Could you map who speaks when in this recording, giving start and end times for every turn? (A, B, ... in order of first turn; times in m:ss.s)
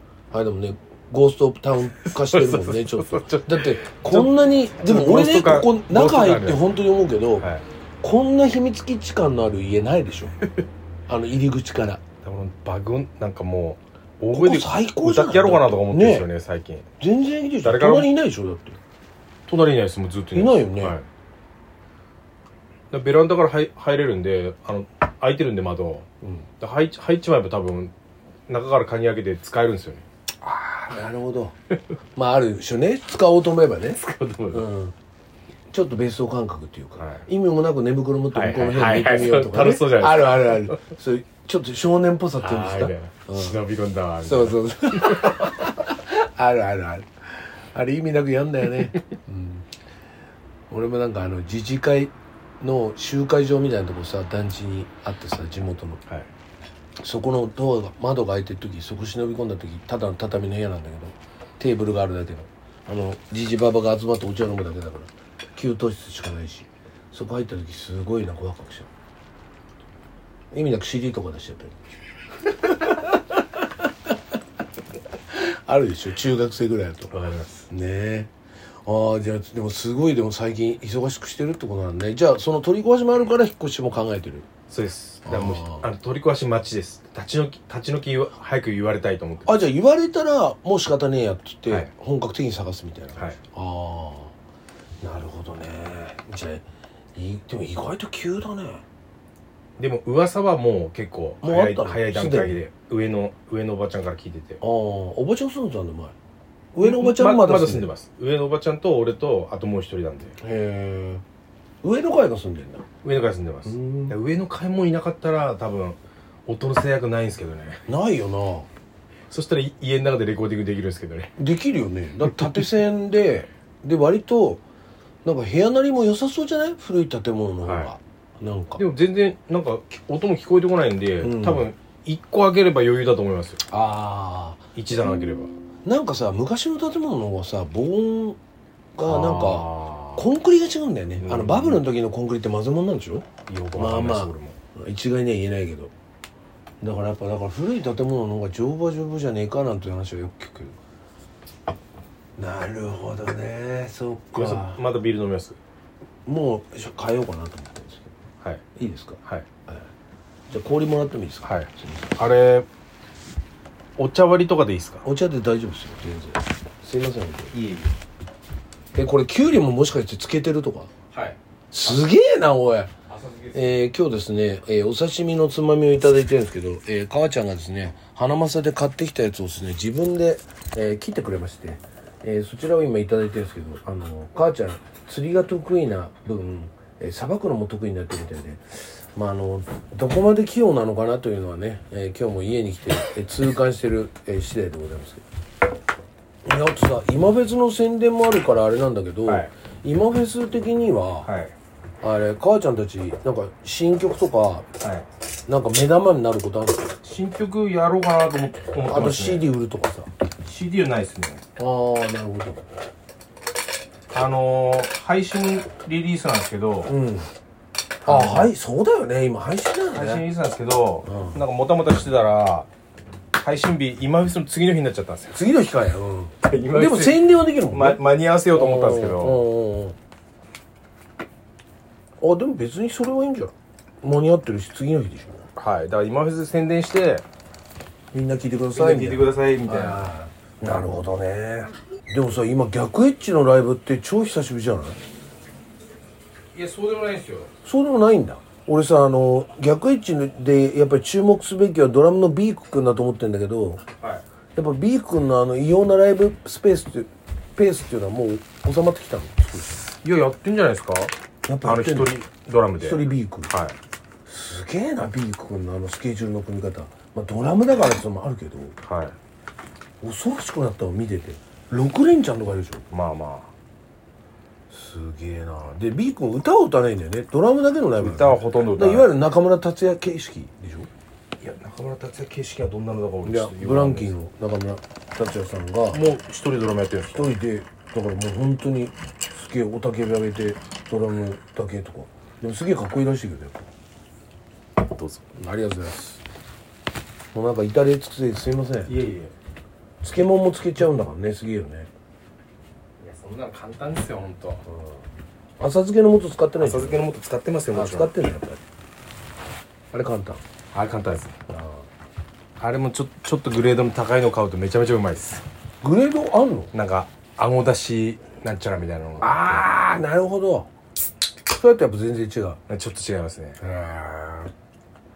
0:00.3-0:07.5 A
0:02.0-0:06.6 B
0:08.0-0:10.4 A
0:11.1-0:12.0 A
0:12.2-0:16.8 B
0:14.3-0:16.3 A
0:17.0-0:18.8 A
0:17.6-0:18.1 B
0:19.5-0:21.0 B
0:20.3-0:21.0 A
0:22.9-0:26.1 B
0:26.6-0:27.9 B
0:28.5-0:30.0 B
0:30.4-0:31.6 A
0:32.1-0:34.0 A
0:34.0-0:34.7 B
0:34.5-0:34.9 A
0:35.7-0:43.6 A
0:37.0-0:37.2 B
0:38.3-0:40.8 B
0:42.4-0:45.4 B
0:44.2-0:49.6 A
0:50.7-0:56.0 A
0:57.0-1:08.9 A
1:10.5-1:11.7 A
1:12.4-1:13.2 A
1:15.3-1:17.1 A
1:17.1-1:17.7 B
1:17.7-1:18.3 A
1:18.8-1:24.5 A
1:24.7-1:29.5 B
1:25.2-1:25.9 A
1:29.4-1:34.3 A
1:35.0-1:38.8 A
1:39.8-1:44.6 B
1:41.4-1:42.6 A
1:44.6-1:46.1 A
1:46.7-1:47.9 A
1:46.8-1:50.4 B
1:50.4-1:51.2 A
1:51.8-1:52.8 A
1:53.0-1:57.8 B
1:53.6-1:54.2 A
1:57.9-1:58.7 A
1:59.3-2:01.3 B
2:01.4-2:04.6 A
2:05.2-2:08.8 A
2:07.6-2:07.9 B
2:08.8-2:13.6 B
2:11.2-2:11.7 A
2:13.7-2:14.6 A
2:14.7-2:15.6 B
2:15.8-2:18.4 A
2:18.9-2:25.9 A
2:19.0-2:20.3 B
2:21.2-2:21.8 B
2:23.5-2:24.6 B
2:26.8-2:30.8 A
2:32.4-2:34.8 A
2:34.3-2:35.6 B
2:36.2-2:38.1 A
2:38.8-2:39.9 A
2:40.5-2:42.2 A
2:41.4-2:42.7 B
2:44.0-2:45.0 B
2:45.0-2:47.5 A
2:47.5-2:47.9 B
2:48.9-2:50.9 A
2:51.1-2:51.4 B
2:51.7-2:52.9 A
2:53.1-2:53.7 B
2:53.5-3:15.2 A
3:16.4-3:21.3 A
3:21.2-3:21.5 B
3:22.0-3:24.6 A
3:24.8-3:25.1 B
3:25.5-3:26.9 A
3:27.0-3:29.5 B
3:28.8-3:30.1 A
3:30.4-3:31.4 B
3:31.6-3:32.6 A
3:34.1-3:36.9 B
3:36.8-3:37.3 A
3:38.0-3:38.5 B
3:38.0-3:40.3 A
3:39.9-3:42.7 B
3:41.0-3:41.4 A
3:43.3-3:45.4 B
3:45.3-3:50.0 A
3:46.4-3:49.4 B
3:52.2-3:55.4 A
3:55.6-3:57.2 B
3:58.1-4:05.0 A
3:58.7-4:00.1 B
4:06.5-4:07.5 B
4:07.6-4:13.8 A
4:14.5-4:19.8 A
4:20.0-4:21.1 B
4:21.4-4:22.1 A
4:21.6-4:23.8 B
4:22.8-4:23.5 A
4:24.2-4:28.8 A
4:28.8-4:29.2 B
4:30.0-4:32.8 A
4:32.9-4:33.5 B
4:34.7-4:40.9 A
4:37.9-4:39.1 B
4:41.4-4:44.1 B
4:43.2-4:46.0 A
4:45.9-4:47.3 B
4:47.1-4:53.7 A
4:54.8-4:55.2 B
4:55.3-4:56.2 A
4:57.3-4:58.9 A
4:58.8-4:59.3 B
5:00.0-5:01.9 A
5:03.0-5:04.6 B
5:04.7-5:05.0 A
5:05.6-5:07.1 A
5:06.6-5:08.2 B
5:07.7-5:08.6 A
5:09.9-5:10.4 A
5:10.7-5:11.4 B
5:11.5-5:11.8 A
5:12.6-5:15.4 B
5:15.8-5:16.7 A
5:16.7-5:19.6 B
5:19.2-5:20.7 A
5:21.5-5:22.6 A
5:22.7-5:23.6 B
5:23.6-5:24.5 A